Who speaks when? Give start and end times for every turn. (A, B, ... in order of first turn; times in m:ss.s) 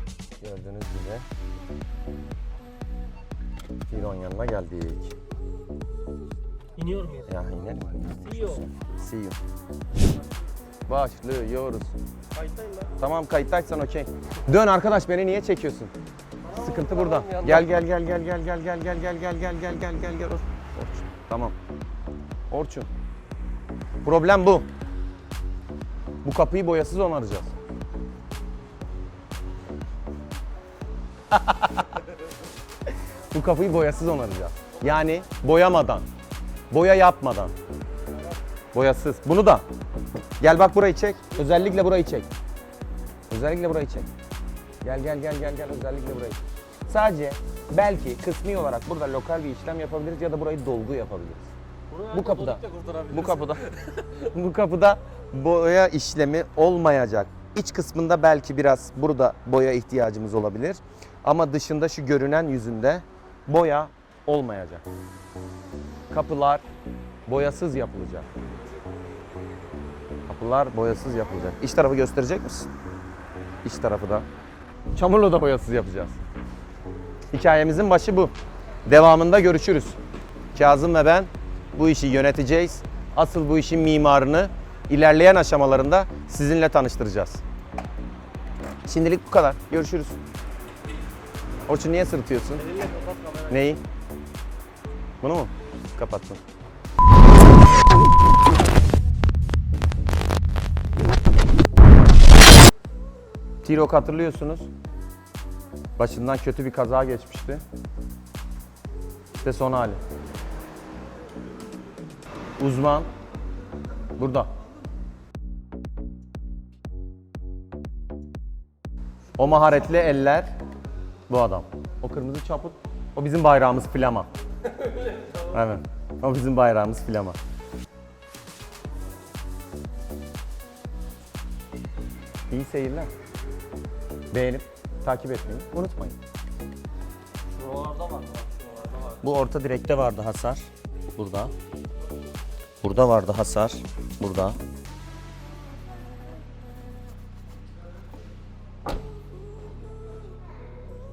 0:00.4-0:01.2 A
0:03.9-0:05.2 A
0:06.8-0:07.3 B
0:07.3-0:09.4 A
0:08.2-0:08.6 B
0:10.9-0:12.0 A
0:13.0-0:15.9 A
0:16.5-0:21.6 A
0:16.7-0:17.6 B
0:22.5-0:22.9 A
0:24.0-0:24.7 A
0:26.2-0:27.5 A
0:31.3-0:31.9 A
0:33.3-0:36.0 A
0:36.7-0:37.5 A
0:38.7-0:39.6 A
0:40.4-0:42.3 A
0:43.3-0:44.1 A
0:44.8-0:51.5 A
0:51.9-0:54.0 B
0:52.1-1:04.8 A
1:06.1-1:06.6 A
1:07.3-1:08.3 A
1:10.3-1:12.7 A
1:13.6-1:14.3 A
1:15.0-1:16.2 A
1:17.3-1:18.3 A
1:18.9-1:20.0 A
1:20.5-1:27.4 A
1:28.8-1:30.2 A
1:31.7-1:33.8 A
1:35.2-1:36.4 A
1:43.6-1:44.7 A
1:46.0-1:47.6 A
1:49.4-1:50.0 A
1:52.6-1:53.1 A
1:54.2-1:54.5 A
1:59.4-2:00.5 A
2:01.3-2:04.3 A
2:05.4-2:07.4 A
2:12.5-2:13.1 A
2:14.3-2:16.2 A
2:17.6-2:18.3 B
2:19.1-2:21.5 A
2:22.8-2:24.6 A